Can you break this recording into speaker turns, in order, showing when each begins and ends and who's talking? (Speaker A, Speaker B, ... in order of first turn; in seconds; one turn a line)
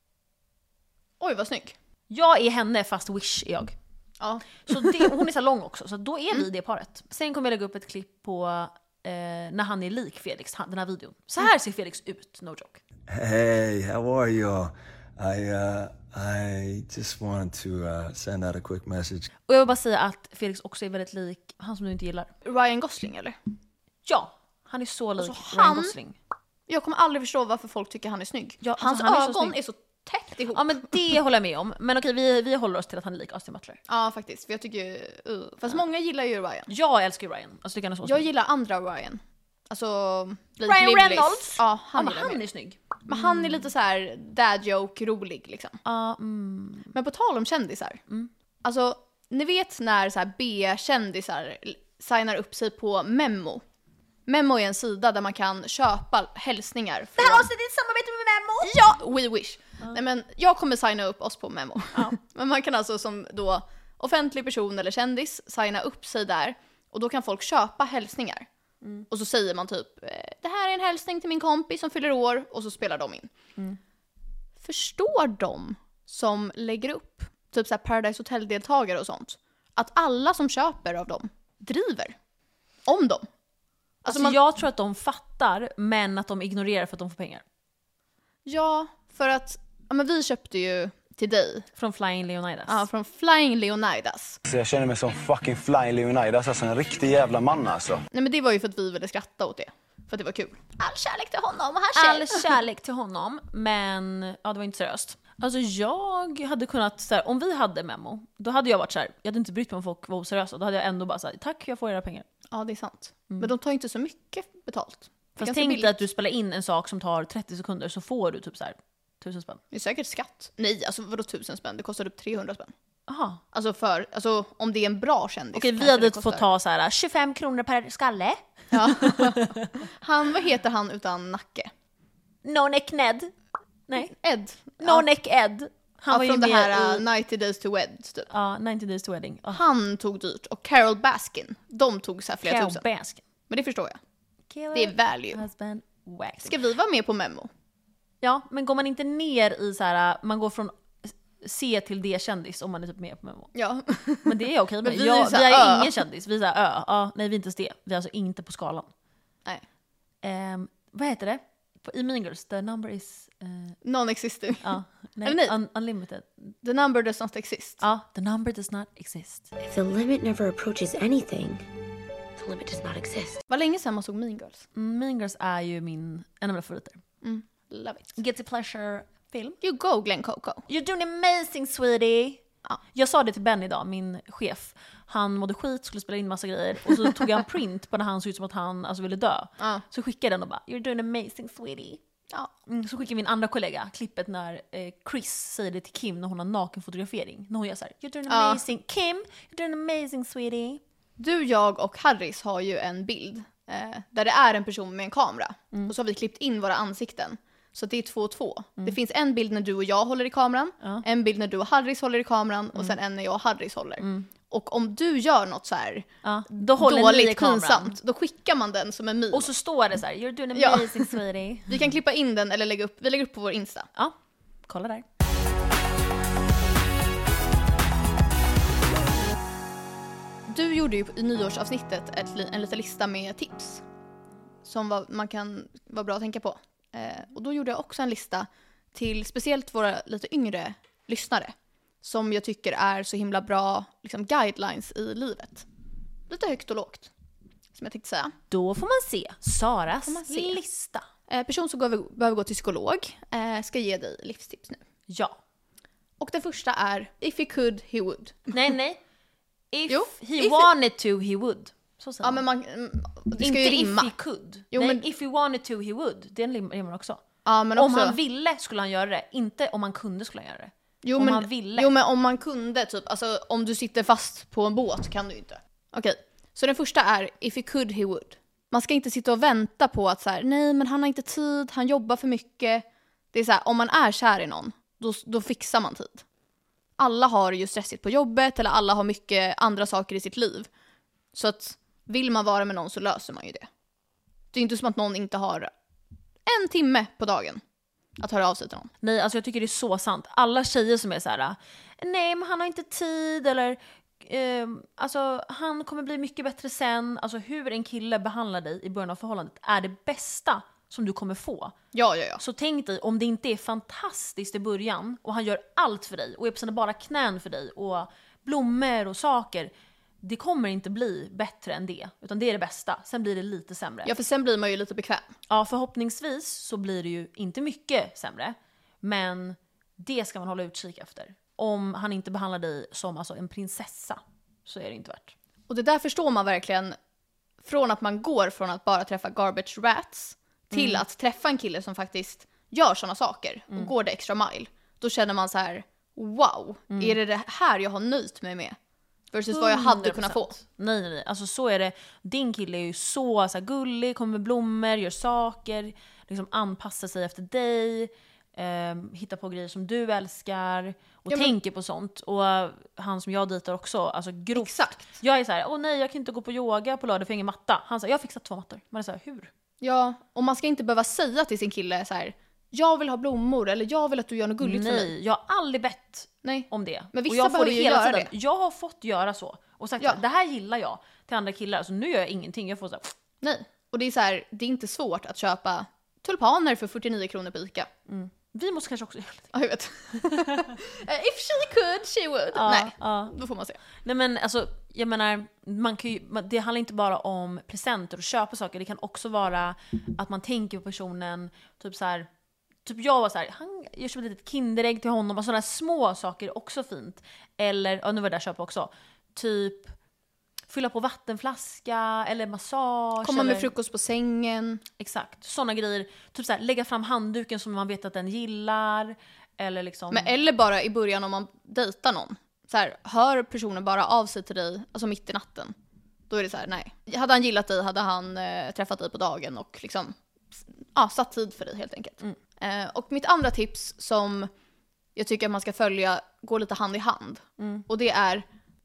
Speaker A: 1.2-1.8
Speaker B: 2.1-3.8
Speaker A: 4.2-5.1
Speaker B: 4.6-12.8
Speaker C: 13.1-19.3
Speaker B: 19.5-22.3
Speaker A: 22.4-23.4
Speaker B: 24.1-26.2
Speaker A: 25.2-26.0
Speaker A: 26.7-30.9
Speaker B: 28.6-29.6
Speaker B: 30.5-33.8
Speaker A: 33.9-36.7
Speaker B: 36.7-38.3
Speaker A: 38.0-42.4
Speaker B: 40.6-43.6
Speaker A: 43.1-45.8
Speaker B: 45.8-47.0
Speaker A: 46.9-48.0
Speaker A: 48.6-53.6
Speaker A: 54.3-57.5
Speaker B: 57.2-58.8
Speaker A: 58.6-68.5
Speaker A: 69.1-73.3
Speaker A: 74.6-82.2
Speaker A: 82.8-83.3
Speaker A: 84.0-84.4
Speaker B: 84.1-87.4
Speaker A: 88.5-91.7
Speaker B: 91.8-92.8
Speaker A: 92.7-94.4
Speaker D: 94.5-98.0
Speaker A: 98.1-102.5
Speaker B: 102.0-112.3
Speaker A: 112.5-115.9
Speaker B: 115.4-119.6
Speaker A: 119.7-122.7
Speaker B: 123.1-123.4
Speaker A: 123.5-126.5
Speaker B: 125.5-129.7
Speaker A: 128.7-131.7
Speaker B: 132.4-133.3
Speaker B: 133.9-134.1
Speaker A: 134.0-135.1
Speaker B: 134.8-137.1
Speaker A: 136.1-138.3
Speaker B: 138.3-139.6
Speaker A: 139.5-142.8
Speaker B: 142.4-143.2
Speaker A: 143.5-144.0
Speaker B: 144.5-146.6
Speaker A: 144.7-145.4
Speaker A: 146.4-147.5
Speaker B: 148.2-153.5
Speaker A: 153.6-156.0
Speaker B: 154.2-158.9
Speaker B: 160.2-163.8
Speaker A: 163.8-165.6
Speaker B: 164.6-166.5
Speaker A: 166.6-167.8
Speaker B: 167.8-169.5
Speaker E: 169.6-171.6
Speaker E: 172.4-173.4
Speaker A: 173.5-174.7
Speaker B: 174.8-177.0
Speaker A: 177.2-178.1
Speaker B: 178.1-179.6
Speaker A: 179.6-180.6
Speaker B: 180.7-182.4
Speaker B: 182.9-192.0
Speaker A: 189.6-189.8
Speaker B: 192.7-200.8
Speaker A: 198.3-198.6
Speaker A: 201.2-219.5
Speaker B: 214.0-214.3
Speaker B: 216.2-218.0
Speaker B: 219.3-221.8
Speaker A: 220.6-221.2
Speaker A: 221.7-223.9
Speaker B: 224.7-225.1
Speaker A: 230.5-233.8
Speaker A: 234.6-245.7
Speaker A: 246.3-247.1
Speaker A: 247.7-248.3
Speaker B: 248.5-251.1
Speaker A: 250.0-250.6
Speaker A: 251.3-254.8
Speaker B: 255.1-255.4
Speaker A: 256.2-258.6
Speaker B: 258.5-259.0
Speaker B: 259.7-262.4
Speaker A: 259.9-260.7
Speaker A: 262.2-264.1
Speaker B: 263.4-267.2
Speaker A: 264.7-265.0
Speaker A: 267.4-268.2
Speaker B: 267.8-271.9
Speaker A: 271.0-286.2
Speaker A: 287.0-290.7
Speaker A: 291.3-293.7
Speaker A: 294.5-295.7
Speaker A: 296.5-297.6
Speaker A: 298.2-298.9
Speaker B: 299.0-311.8
Speaker A: 311.9-312.4
Speaker B: 312.4-319.7
Speaker B: 320.2-324.1
Speaker A: 324.1-325.3
Speaker B: 325.5-335.4
Speaker A: 335.7-337.0
Speaker A: 337.6-348.8
Speaker B: 340.7-341.0
Speaker A: 349.3-350.6
Speaker B: 349.5-369.5
Speaker A: 361.3-361.6
Speaker A: 364.6-365.1
Speaker A: 369.8-375.1
Speaker B: 374.6-383.1
Speaker A: 376.4-378.3
Speaker A: 383.4-387.9
Speaker B: 388.1-389.5
Speaker A: 389.5-393.8
Speaker B: 390.3-390.7
Speaker B: 392.5-393.4
Speaker B: 394.0-402.3
Speaker B: 402.8-409.9
Speaker B: 410.7-413.7
Speaker A: 413.2-414.8
Speaker B: 415.0-420.3
Speaker A: 420.1-425.8
Speaker A: 426.3-434.5
Speaker A: 435.1-438.4
Speaker B: 437.6-437.9